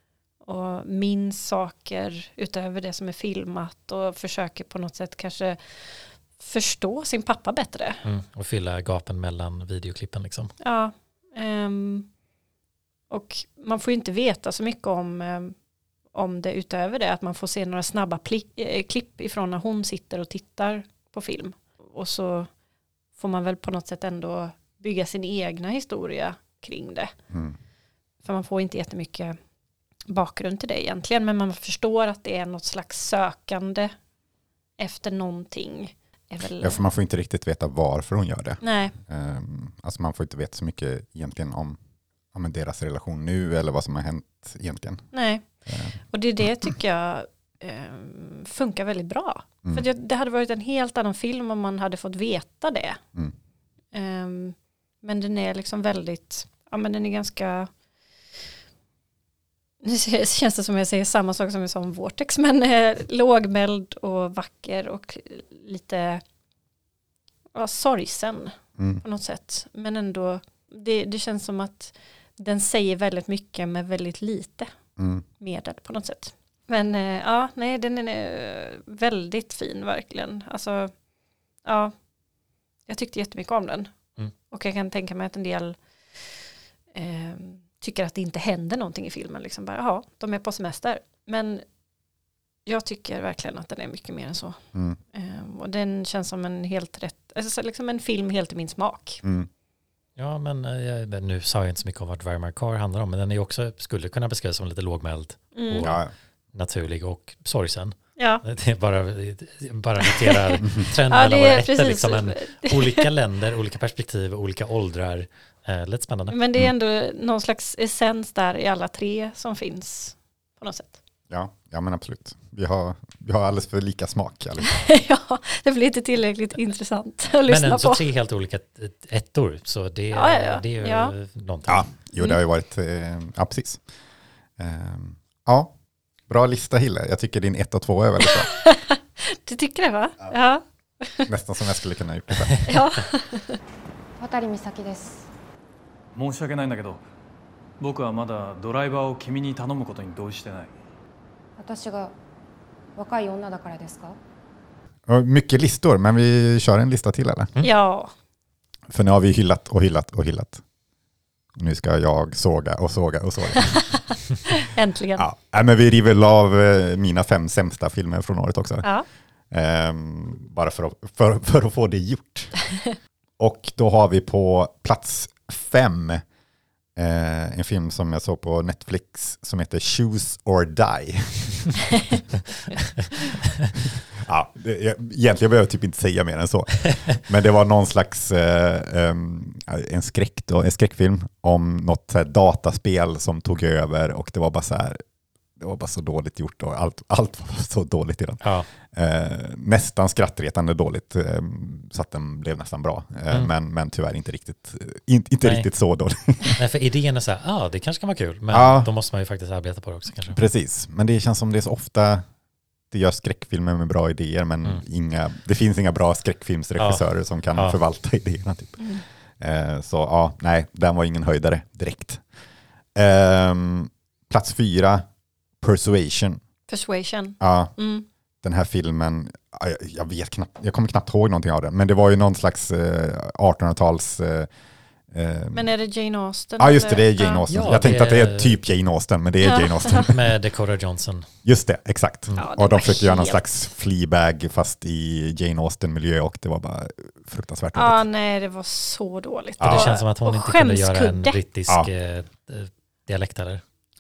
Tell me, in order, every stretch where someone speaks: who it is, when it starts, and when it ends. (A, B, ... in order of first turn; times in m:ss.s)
0:00.4-0:08.0 A
0:08.0-0:10.5 B
0:10.6-0:12.1 A
0:13.1-0:15.5 A
0:16.1-0:22.5 A
0:23.2-0:27.1 A
0:27.3-0:27.6 C
0:28.2-0:29.4 A
0:30.1-0:33.9 A
0:34.8-0:36.8 A
0:36.6-0:41.8 C
0:38.6-0:38.9 A
0:42.3-0:45.1 C
0:45.1-0:45.4 A
0:45.7-0:46.0 C
0:46.1-0:53.0 A
0:53.9-0:57.7 A
0:59.8-1:06.2 A
1:07.5-1:14.7 A
1:08.8-1:09.0 C
1:15.0-1:15.2 C
1:15.4-1:20.9 A
1:21.6-1:21.9 A
1:22.9-1:23.9 A
1:24.5-1:26.4 A
1:26.9-1:31.6 A
1:32.6-1:34.6 A
1:35.1-1:39.2 A
1:39.2-1:39.5 C
1:40.2-1:46.0 B
1:45.5-1:45.9 A
1:45.8-1:46.1 C
1:46.5-1:56.4 B
1:48.2-1:48.4 A
1:50.1-1:53.1 A
1:56.3-2:01.0 A
2:01.3-2:04.8 C
2:04.6-2:08.0 A
2:07.5-2:11.9 B
2:10.1-2:11.1 A
2:11.7-2:13.8 C
2:14.6-2:15.7 C
2:16.3-2:18.5 C
2:18.2-2:21.3 A
2:21.3-2:22.7 C
2:22.7-2:23.6 A
2:24.2-2:25.2 D
2:26.1-2:27.0 E
2:27.8-2:30.7 E
2:31.6-2:32.1 D
2:33.0-2:34.2 D
2:35.1-2:37.5 C
2:37.6-2:38.1 A
2:38.9-2:40.6 C
2:41.6-2:44.0 C
2:44.5-2:45.2 A
2:45.2-2:48.9 C
2:49.5-2:52.6 C
2:53.4-2:56.2 C
2:57.0-3:01.8 C
3:04.2-3:15.0 C
3:15.6-3:26.6 C
3:18.4-3:18.7 B
3:25.4-3:25.7 B
3:26.6-3:30.4 B
3:28.5-3:28.9 C
3:30.3-3:32.2 C
3:32.9-3:38.8 C
3:36.8-3:37.8 B
3:38.8-3:39.0 A
3:39.4-3:42.2 C
3:42.9-3:45.0 C
3:45.6-3:46.4 C
3:46.7-3:48.0 A
3:47.4-3:47.8 C
3:48.4-3:54.5 C
3:55.1-3:55.7 C
3:55.5-3:57.4 A
3:56.6-4:00.2 C
3:57.5-3:58.6 B
3:59.4-4:00.0 A
4:00.0-4:01.3 B
4:01.4-4:08.0 C
4:02.4-4:03.7 A
4:07.7-4:11.4 A
4:09.6-4:09.9 C
4:09.6-4:13.6 B